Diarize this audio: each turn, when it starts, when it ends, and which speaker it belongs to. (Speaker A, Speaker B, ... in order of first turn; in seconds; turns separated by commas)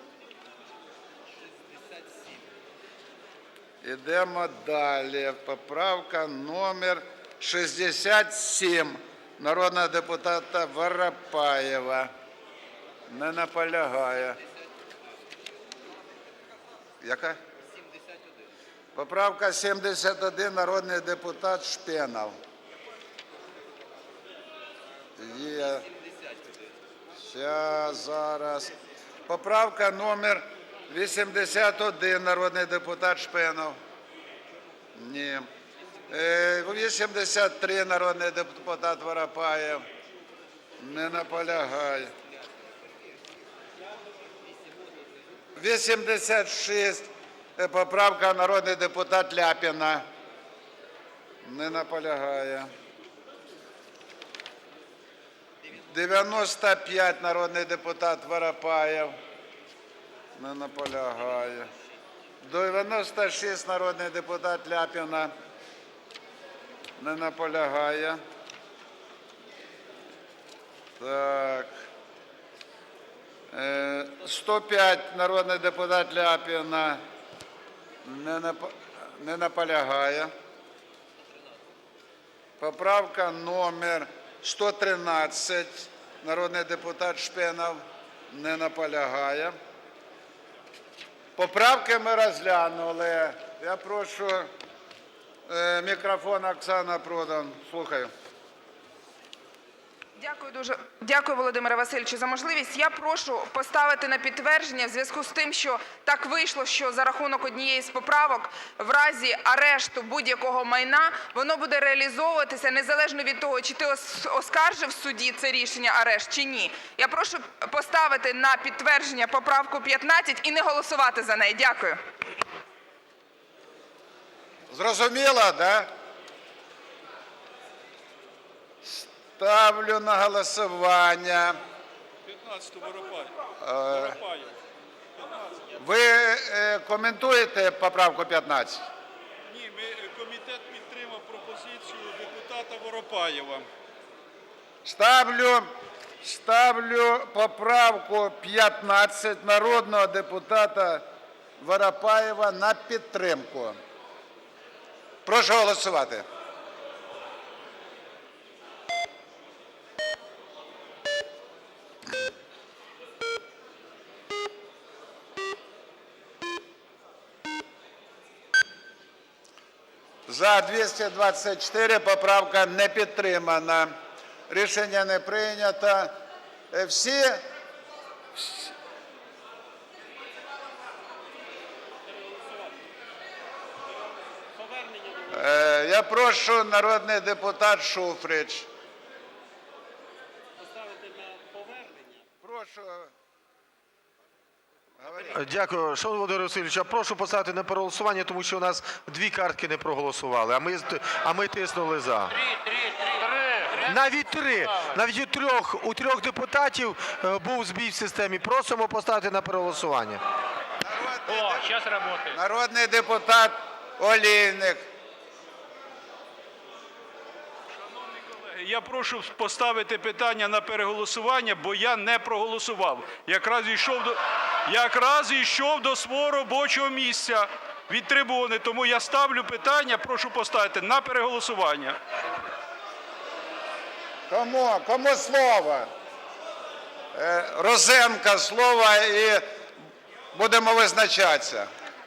Speaker A: 3.8-12.1, Speaker A: 13.1-14.4, Speaker A: 17.0-17.4, Speaker A: 18.9-22.4, Speaker A: 25.2-25.8, Speaker A: 27.2-28.7, Speaker A: 29.3-33.8, Speaker A: 35.0-35.4, Speaker A: 36.1-39.8, Speaker A: 40.8-42.1, Speaker A: 45.5-50.0, Speaker A: 51.4-52.7, Speaker A: 55.8-59.1, Speaker A: 60.4-61.7, Speaker A: 62.4-65.3, Speaker A: 67.0-68.2, Speaker A: 71.0-71.7, Speaker A: 73.5-77.0, Speaker A: 78.0-80.3, Speaker A: 82.6-87.8, Speaker A: 88.3-89.5, Speaker A: 91.3-94.5, Speaker A: 95.5-98.1, Speaker B: 100.3-121.9, Speaker A: 124.7-125.9, Speaker A: 128.8-131.5, Speaker C: 132.2-133.3, Speaker A: 133.6-134.2, Speaker C: 133.9-134.6, Speaker C: 135.2-135.7, Speaker A: 135.8-138.8, Speaker C: 139.4-143.7, Speaker A: 144.8-145.7, Speaker A: 146.2-151.0, Speaker A: 151.6-153.8, Speaker A: 155.2-156.2, Speaker A: 170.3-173.9, Speaker A: 174.5-176.1, Speaker A: 176.7-177.4, Speaker A: 185.3-188.7, Speaker A: 192.4-193.1, Speaker A: 195.0-195.3, Speaker D: 195.3-202.4, Speaker D: 203.7-210.2, Speaker A: 210.8-214.8, Speaker C: 217.7-232.0, Speaker A: 234.3-235.9, Speaker A: 237.1-239.4, Speaker A: 240.3-241.7